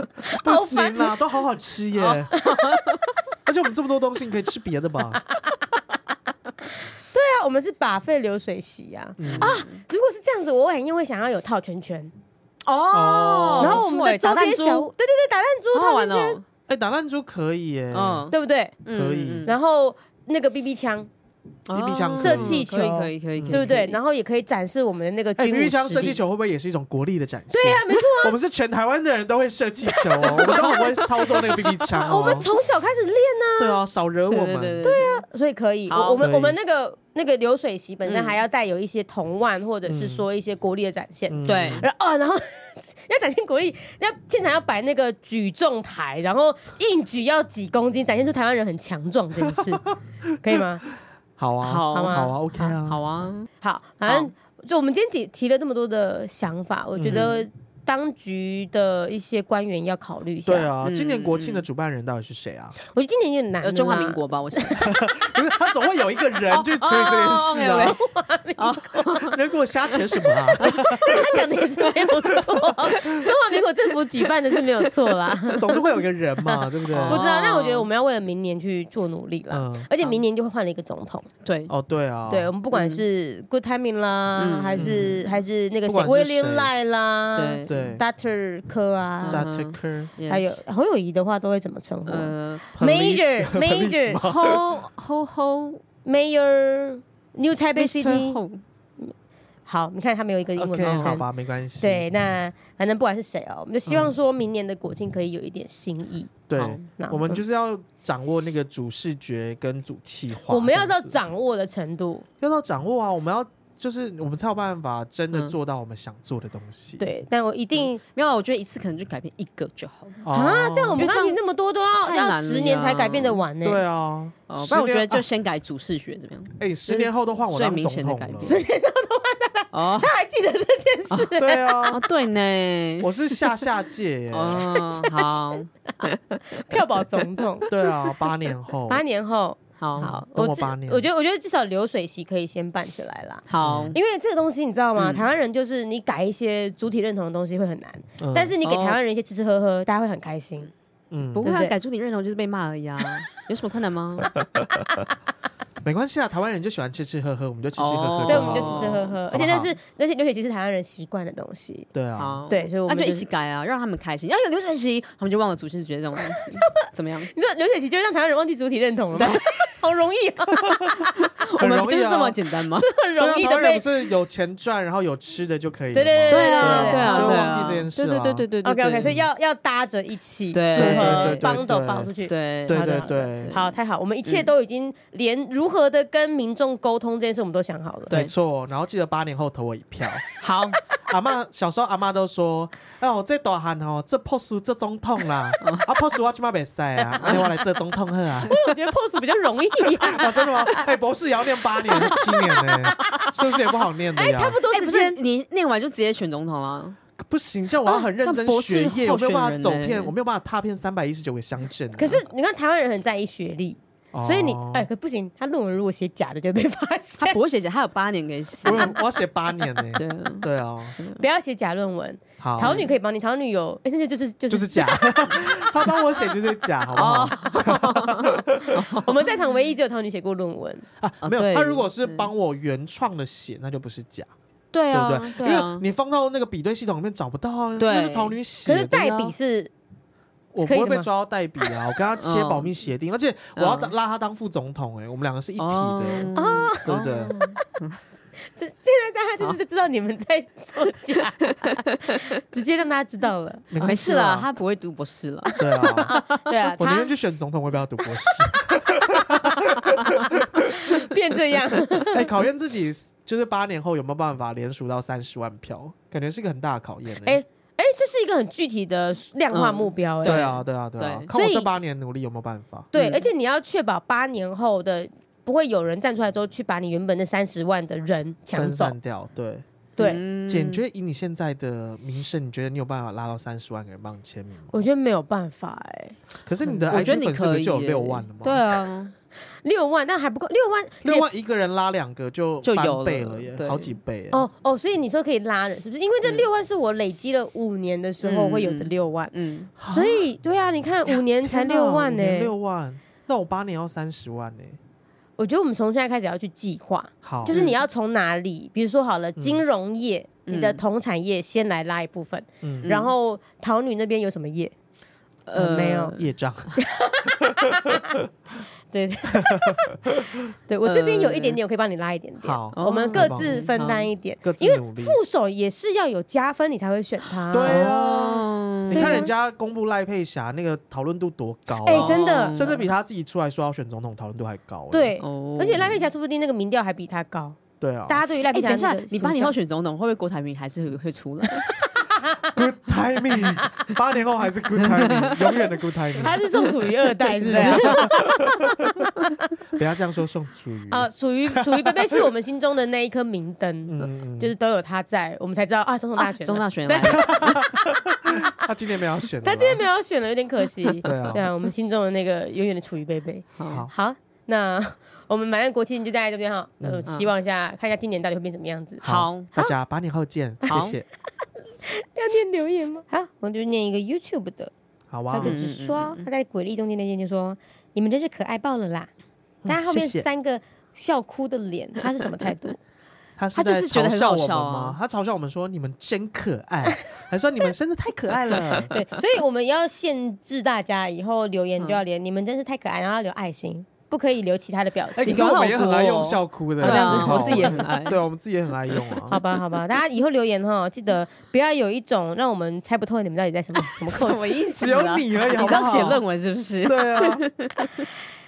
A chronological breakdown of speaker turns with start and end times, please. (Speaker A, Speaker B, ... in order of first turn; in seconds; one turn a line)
Speaker A: 0.2-1.1
Speaker B: 0.4-2.4
Speaker C: 2.0-3.0
Speaker A: 2.3-2.9
Speaker B: 3.5-5.2
Speaker A: 7.1-12.1
Speaker B: 9.2-9.5
Speaker C: 9.3-9.8
Speaker C: 12.7-14.9
Speaker B: 12.9-13.8
Speaker A: 13.6-16.4
Speaker C: 15.7-16.4
Speaker B: 16.7-18.3
Speaker C: 17.9-19.5
Speaker A: 18.3-18.8
Speaker B: 18.9-19.5
Speaker A: 19.4-21.1
Speaker C: 21.7-24.0
Speaker B: 21.7-22.6
Speaker A: 22.1-26.2
Speaker B: 23.4-23.7
Speaker B: 25.4-32.5
Speaker A: 27.5-28.4
Speaker A: 29.9-33.8
Speaker C: 32.1-32.5
Speaker B: 33.6-34.8
Speaker C: 34.3-35.2
Speaker A: 34.8-49.8
Speaker C: 35.9-36.2
Speaker B: 36.2-36.6
Speaker C: 38.0-38.4
Speaker B: 39.8-40.2
Speaker B: 41.3-41.9
Speaker C: 41.4-41.9
Speaker B: 49.4-49.9
Speaker A: 50.4-50.8
Speaker B: 51.4-53.0
Speaker C: 51.6-53.5
Speaker A: 51.9-52.7
Speaker A: 53.6-60.7
Speaker B: 57.0-57.3
Speaker C: 57.1-57.3
Speaker B: 60.4-62.8
Speaker C: 60.8-61.6
Speaker A: 62.9-65.1
Speaker C: 63.6-64.9
Speaker B: 64.8-68.0
Speaker C: 66.5-68.0
Speaker A: 67.5-68.8
Speaker C: 68.6-69.4
Speaker B: 69.1-73.3
Speaker A: 70.5-81.3
Speaker B: 75.5-77.2
Speaker C: 76.9-77.9
Speaker B: 79.5-79.9
Speaker C: 81.4-81.7
Speaker B: 81.7-82.5
Speaker A: 82.3-89.4
Speaker C: 82.7-83.0
Speaker C: 84.4-85.2
Speaker B: 84.8-85.2
Speaker B: 85.8-86.7
Speaker C: 87.3-88.0
Speaker B: 87.6-88.0
Speaker C: 89.2-90.6
Speaker B: 89.3-90.1
Speaker A: 90.3-94.9
Speaker C: 92.1-92.7
Speaker B: 92.7-94.6
Speaker C: 94.7-95.8
Speaker A: 96.0-98.4
Speaker C: 97.8-98.6
Speaker A: 99.7-101.2
Speaker B: 100.6-102.1
Speaker C: 100.8-101.2
Speaker A: 101.8-106.4
Speaker B: 106.5-111.2
Speaker C: 106.5-106.9
Speaker A: 107.0-107.4
Speaker A: 110.5-112.2
Speaker B: 112.4-117.0
Speaker A: 117.0-118.0
Speaker C: 117.8-120.2
Speaker B: 120.2-121.0
Speaker A: 120.3-123.8
Speaker C: 121.0-121.4
Speaker C: 122.0-123.4
Speaker B: 123.6-125.2
Speaker C: 124.5-128.6
Speaker B: 126.6-128.6
Speaker A: 128.4-131.8
Speaker C: 129.7-130.1
Speaker B: 131.3-132.0
Speaker C: 131.8-133.1
Speaker B: 133.0-134.7
Speaker C: 134.3-136.7
Speaker A: 134.4-137.7
Speaker B: 137.7-139.0
Speaker A: 138.9-150.7
Speaker C: 139.8-140.2
Speaker B: 140.1-141.1
Speaker C: 143.5-144.0
Speaker B: 143.6-144.0
Speaker C: 144.9-145.3
Speaker B: 148.2-148.5
Speaker C: 148.6-149.0
Speaker B: 151.1-151.5
Speaker C: 151.3-154.3
Speaker A: 151.4-151.7
Speaker A: 154.8-155.1
Speaker B: 155.8-159.7
Speaker C: 157.8-159.2
Speaker A: 158.3-161.9
Speaker B: 161.9-162.4
Speaker C: 162.2-167.3
Speaker A: 162.5-163.3
Speaker A: 166.2-166.6
Speaker A: 167.3-171.3
Speaker C: 169.1-169.6
Speaker B: 171.6-172.4
Speaker C: 171.6-172.9
Speaker A: 172.8-173.9
Speaker B: 173.2-178.4
Speaker A: 175.9-177.8
Speaker C: 176.3-179.1
Speaker A: 178.6-188.3
Speaker C: 180.5-181.6
Speaker B: 180.7-182.1
Speaker C: 182.3-184.5
Speaker B: 182.7-183.6
Speaker B: 188.1-190.2
Speaker C: 190.4-190.8
Speaker B: 191.1-198.6
Speaker C: 195.6-195.9
Speaker A: 197.0-197.4
Speaker A: 198.5-200.9
Speaker B: 200.0-204.6
Speaker A: 201.8-203.3
Speaker A: 204.1-205.2
Speaker C: 204.7-207.0
Speaker B: 207.2-212.2
Speaker C: 207.9-210.1
Speaker A: 211.9-217.4
Speaker B: 214.1-214.9
Speaker C: 217.2-218.9
Speaker A: 218.6-219.0
Speaker B: 218.6-220.9
Speaker C: 219.9-220.5
Speaker A: 221.2-226.0
Speaker B: 222.4-222.8
Speaker C: 222.6-222.9
Speaker B: 224.5-228.9
Speaker A: 226.9-227.2
Speaker C: 226.9-229.3
Speaker A: 228.9-230.8
Speaker B: 231.0-234.3
Speaker C: 231.2-232.3
Speaker C: 234.7-235.8
Speaker B: 234.9-239.3
Speaker C: 237.8-238.4
Speaker A: 238.6-239.7
Speaker B: 240.5-247.3
Speaker A: 240.6-241.1
Speaker C: 242.2-242.7
Speaker C: 243.6-243.9
Speaker C: 245.6-248.0
Speaker A: 246.3-247.3
Speaker A: 248.6-253.7
Speaker C: 251.4-251.8
Speaker B: 253.7-254.5
Speaker C: 253.8-256.2
Speaker A: 255.5-257.1
Speaker B: 255.6-256.1
Speaker B: 256.8-260.9
Speaker A: 258.2-262.3
Speaker B: 262.1-267.4
Speaker A: 267.2-270.5
Speaker C: 269.5-271.3
Speaker B: 270.2-272.9
Speaker A: 271.3-271.7
Speaker A: 272.9-278.9
Speaker C: 272.9-273.2
Speaker B: 278.6-279.7
Speaker C: 280.0-280.8
Speaker B: 280.4-284.7
Speaker A: 284.7-287.0
Speaker B: 286.4-288.6
Speaker C: 286.9-289.1
Speaker A: 289.6-291.3
Speaker B: 291.0-294.4
Speaker C: 292.6-294.0
Speaker A: 294.3-299.3
Speaker C: 298.2-299.7
Speaker B: 299.8-300.3
Speaker A: 299.9-302.5
Speaker B: 301.1-304.8
Speaker A: 305.4-314.7
Speaker B: 307.2-307.6
Speaker C: 307.5-307.8
Speaker B: 309.4-309.6
Speaker C: 310.5-310.8
Speaker B: 312.6-312.9
Speaker C: 312.8-313.1
Speaker C: 315.5-316.2
Speaker A: 315.6-316.2
Speaker B: 316.2-316.8
Speaker A: 316.8-318.2
Speaker B: 317.8-318.2
Speaker A: 318.9-320.0
Speaker B: 319.4-320.5
Speaker A: 320.7-327.9
Speaker C: 320.8-321.6
Speaker B: 322.4-323.5
Speaker C: 322.7-324.1
Speaker B: 324.4-325.2
Speaker B: 327.5-335.1
Speaker C: 327.6-329.3
Speaker A: 328.9-329.3
Speaker A: 331.8-332.7
Speaker C: 331.9-332.8
Speaker A: 334.9-339.5
Speaker C: 335.2-336.0
Speaker B: 337.8-338.2
Speaker C: 338.5-341.7
Speaker B: 342.5-346.4
Speaker C: 344.9-345.6
Speaker A: 346.2-349.4
Speaker C: 347.4-348.1
Speaker B: 347.5-348.5
Speaker B: 349.8-352.3
Speaker A: 350.9-358.5
Speaker B: 353.9-354.5
Speaker C: 356.2-357.5
Speaker B: 357.1-359.8
Speaker A: 359.4-369.0
Speaker B: 361.0-361.5
Speaker C: 363.6-363.9
Speaker B: 363.7-363.9
Speaker B: 366.8-367.1
Speaker C: 367.1-367.3
Speaker C: 369.0-369.5
Speaker B: 369.0-371.1
Speaker C: 370.6-370.9
Speaker A: 371.8-374.7
Speaker B: 375.1-375.6
Speaker A: 375.3-379.1
Speaker C: 375.4-376.2
Speaker B: 379.6-380.3
Speaker A: 379.6-382.8
Speaker B: 383.4-388.9
Speaker C: 383.5-385.0
Speaker A: 388.9-395.6
Speaker B: 395.2-399.4
Speaker C: 395.2-398.2
Speaker A: 396.8-398.1
Speaker A: 399.3-404.6
Speaker C: 403.9-408.1
Speaker B: 404.6-406.2
Speaker B: 406.8-407.4